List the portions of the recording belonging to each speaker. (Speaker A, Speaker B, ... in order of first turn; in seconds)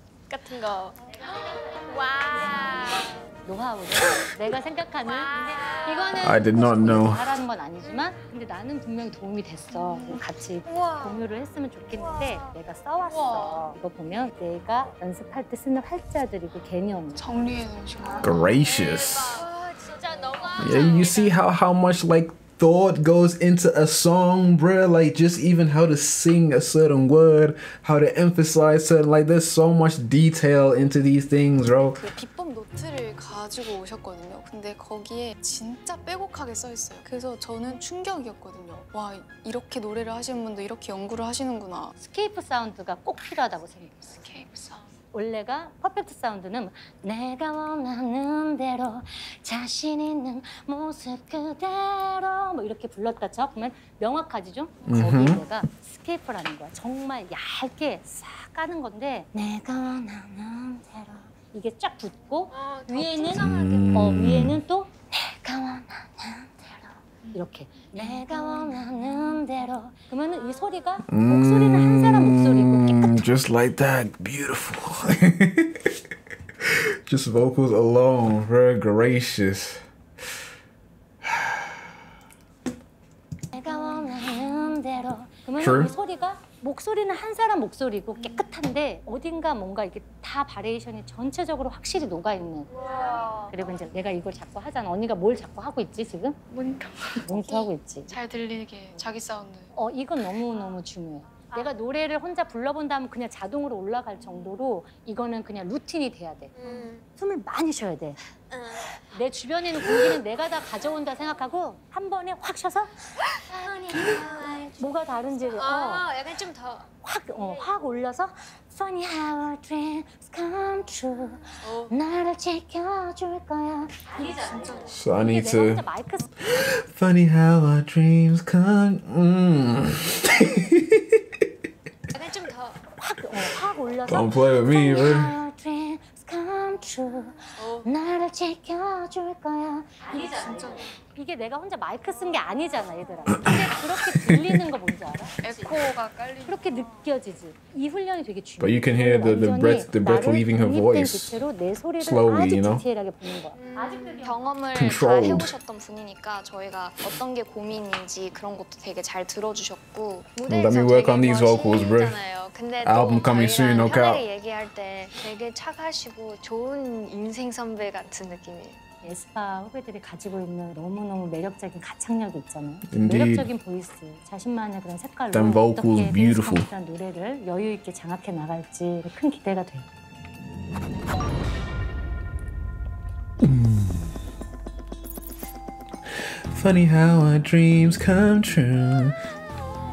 Speaker A: 0.3-3.2, 5.0-6.4, 10.7-11.2, 11.9-12.5, 18.3-21.3, 62.5-63.8, 70.6-70.9, 92.8-93.5, 106.5-107.0, 108.5-108.9, 113.5-114.8, 115.4-116.8, 121.6-121.9, 124.2-124.9, 132.1-132.8, 153.7-168.8
Speaker B: 2.3-17.2, 42.0-44.3, 45.1-73.2, 83.5-92.8, 93.5-96.4, 97.2-98.1, 99.7-108.2, 109.1-112.9, 114.7-116.1, 117.0-126.3, 133.0-145.3, 146.4-154.4, 169.0-179.9
Speaker C: 6.2-7.3, 18.2-19.4, 20.6-32.0, 54.9-55.4, 63.3-64.6, 71.1-75.9, 76.6-79.8, 81.2-81.8, 85.6-85.9, 124.9-125.8, 126.4-131.2, 134.0-135.3, 143.3-143.6, 144.1-144.4, 148.6-151.4, 152.0-152.8, 154.7-155.5, 160.4-162.2, 162.8-164.2, 172.9-173.5, 175.3-176.7, 183.4-184.1, 186.5-189.2
Speaker D: 13.1-13.7, 17.1-18.6, 19.4-20.6, 31.9-41.9, 44.2-44.8, 92.8-93.5, 96.5-99.7, 140.2-140.8, 145.4-146.9